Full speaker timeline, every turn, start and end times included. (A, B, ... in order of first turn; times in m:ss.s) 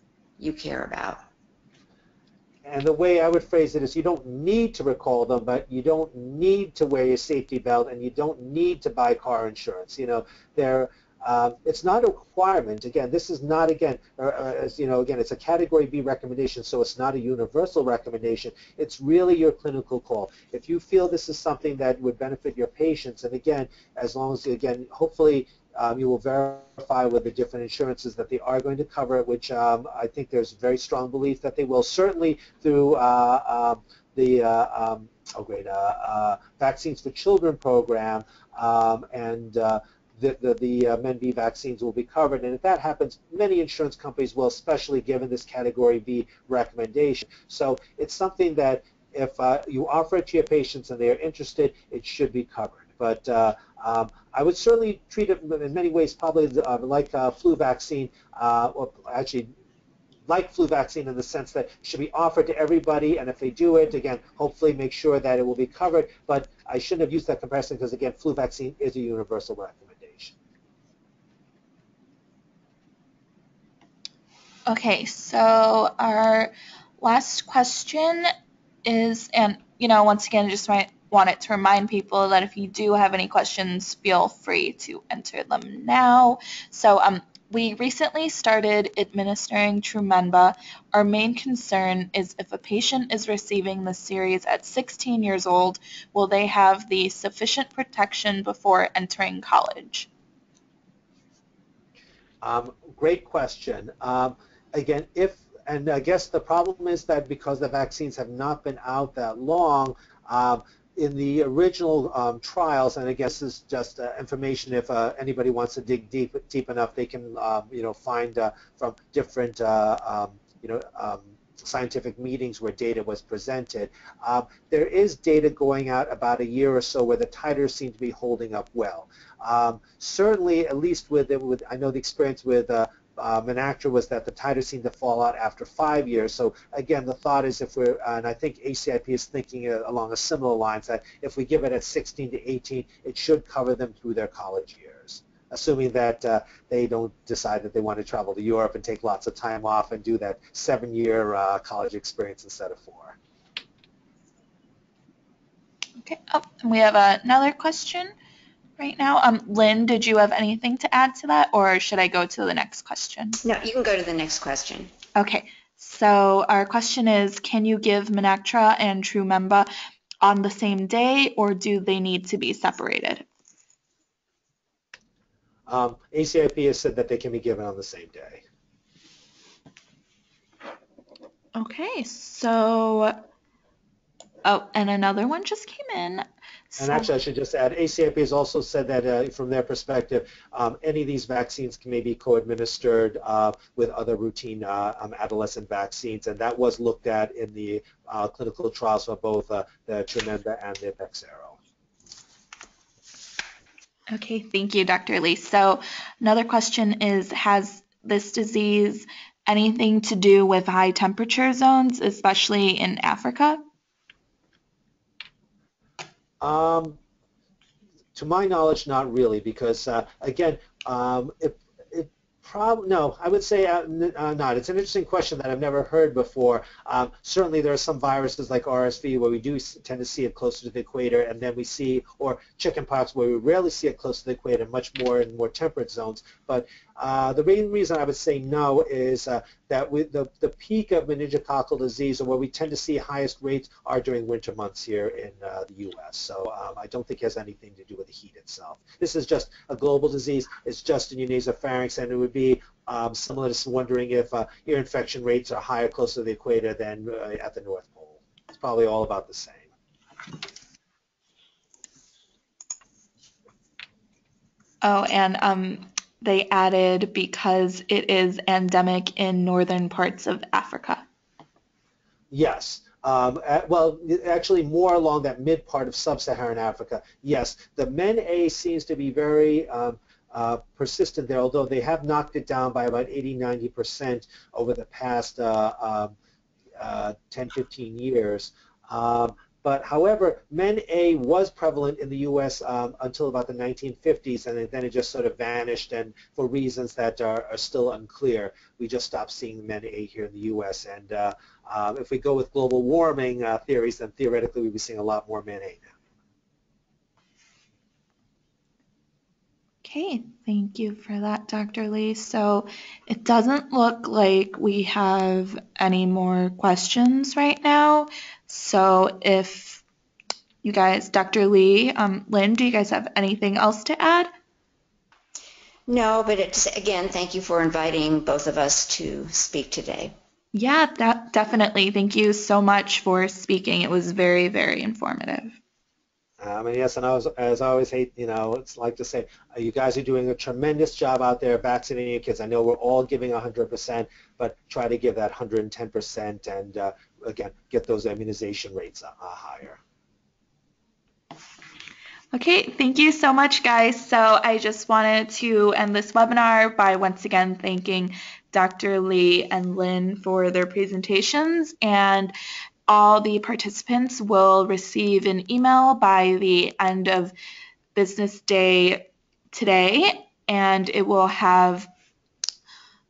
0:00.4-0:01.2 A
0:02.6-0:59.5 B
1:00.3-1:10.4 B
1:14.7-1:18.3 C
1:18.8-1:40.1 C
1:42.4-2:33.2 B
2:36.0-2:38.1 C
2:38.8-2:43.4 C
2:43.4-2:44.9 A
2:45.2-2:49.7 C
2:50.2-2:53.2 C
2:55.7-2:58.4 B
3:01.6-3:03.2 C
3:04.4-3:07.1 C
3:06.8-3:21.6 B
3:24.1-3:33.6 C
3:36.4-3:37.0 B
3:38.2-4:19.7 B
4:24.8-4:31.0 C
4:32.3-4:46.2 B
4:46.8-5:05.9 B
5:09.8-5:19.8 C
5:20.6-5:24.3 C
5:25.9-5:30.1 A
5:30.5-5:35.6 C
5:36.4-5:49.8 B
5:52.3-6:02.3 C
6:02.9-6:07.3 C
6:08.0-6:11.9 C